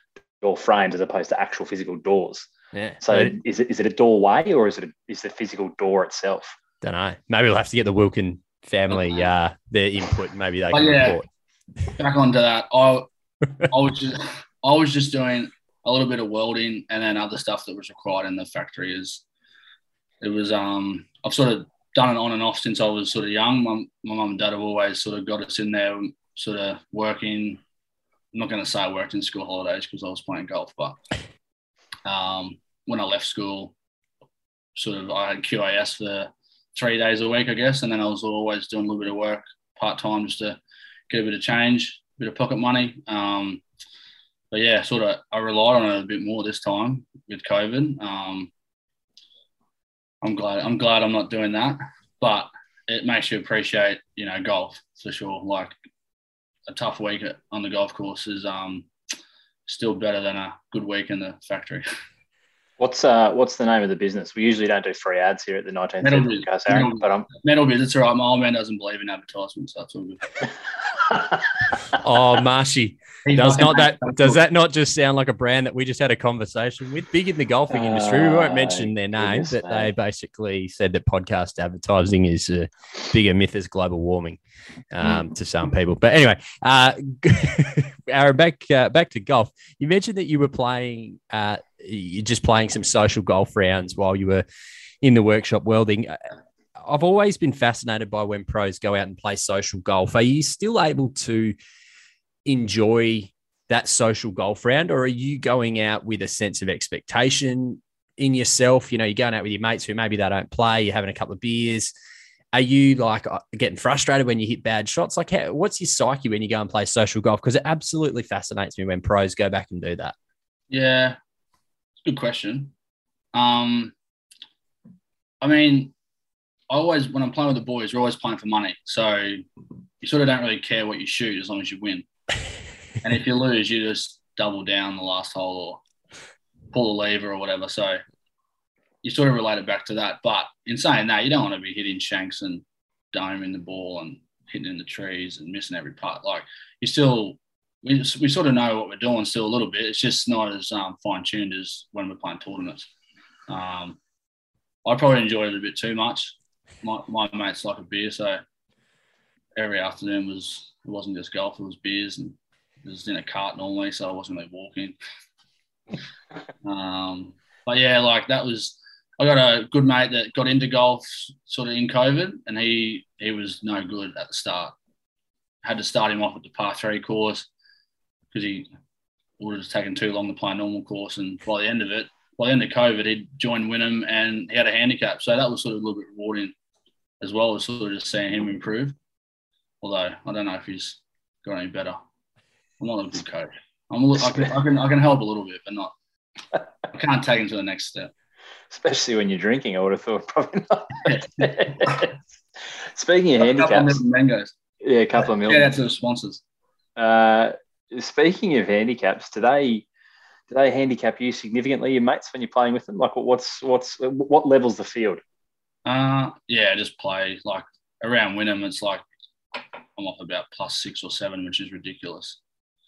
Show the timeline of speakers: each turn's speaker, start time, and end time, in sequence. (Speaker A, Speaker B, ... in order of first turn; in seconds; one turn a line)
Speaker A: 0.4-2.5
Speaker B: 2.7-3.4
Speaker A: 3.0-6.6
Speaker B: 6.8-11.3
Speaker C: 10.7-11.2
Speaker C: 11.9-13.1
Speaker C: 13.7-19.2
Speaker C: 20.2-27.6
Speaker C: 28.3-31.0
Speaker C: 32.0-33.7
Speaker C: 34.8-40.6
Speaker C: 41.1-43.6
Speaker C: 44.5-48.5
Speaker C: 50.2-55.7
Speaker C: 56.7-58.9
Speaker C: 59.7-61.8
Speaker A: 62.8-67.3
Speaker C: 66.0-70.4
Speaker B: 71.9-84.4
Speaker C: 73.2-74.4
Speaker A: 77.7-79.9
Speaker B: 84.9-94.4
Speaker A: 85.0-85.3
Speaker B: 95.0-96.2
Speaker B: 96.8-101.6
Speaker B: 102.4-111.9
Speaker B: 112.5-120.2
Speaker C: 120.7-121.2
Speaker C: 122.0-122.7
Speaker C: 123.3-123.9
Speaker C: 125.4-125.9
Speaker C: 126.7-129.4
Speaker C: 130.0-132.1
Speaker C: 133.0-135.8
Speaker C: 136.7-138.0
Speaker C: 139.0-152.9
Speaker C: 153.5-154.0
Speaker C: 154.8-158.4
Speaker C: 159.6-165.0
Speaker C: 166.6-174.7
Speaker C: 175.6-177.5
Speaker C: 178.3-178.7
Speaker C: 179.4-186.6
Speaker C: 187.2-188.9
Speaker C: 189.8-192.0
Speaker C: 192.8-195.9
Speaker A: 194.2-194.5
Speaker C: 196.9-198.1
Speaker A: 198.7-202.1
Speaker C: 201.1-202.1
Speaker A: 202.9-204.0
Speaker C: 203.4-204.5
Speaker A: 204.8-205.7
Speaker C: 205.2-206.4
Speaker A: 207.0-209.8
Speaker A: 210.5-215.2
Speaker C: 215.8-219.0
Speaker C: 220.0-222.4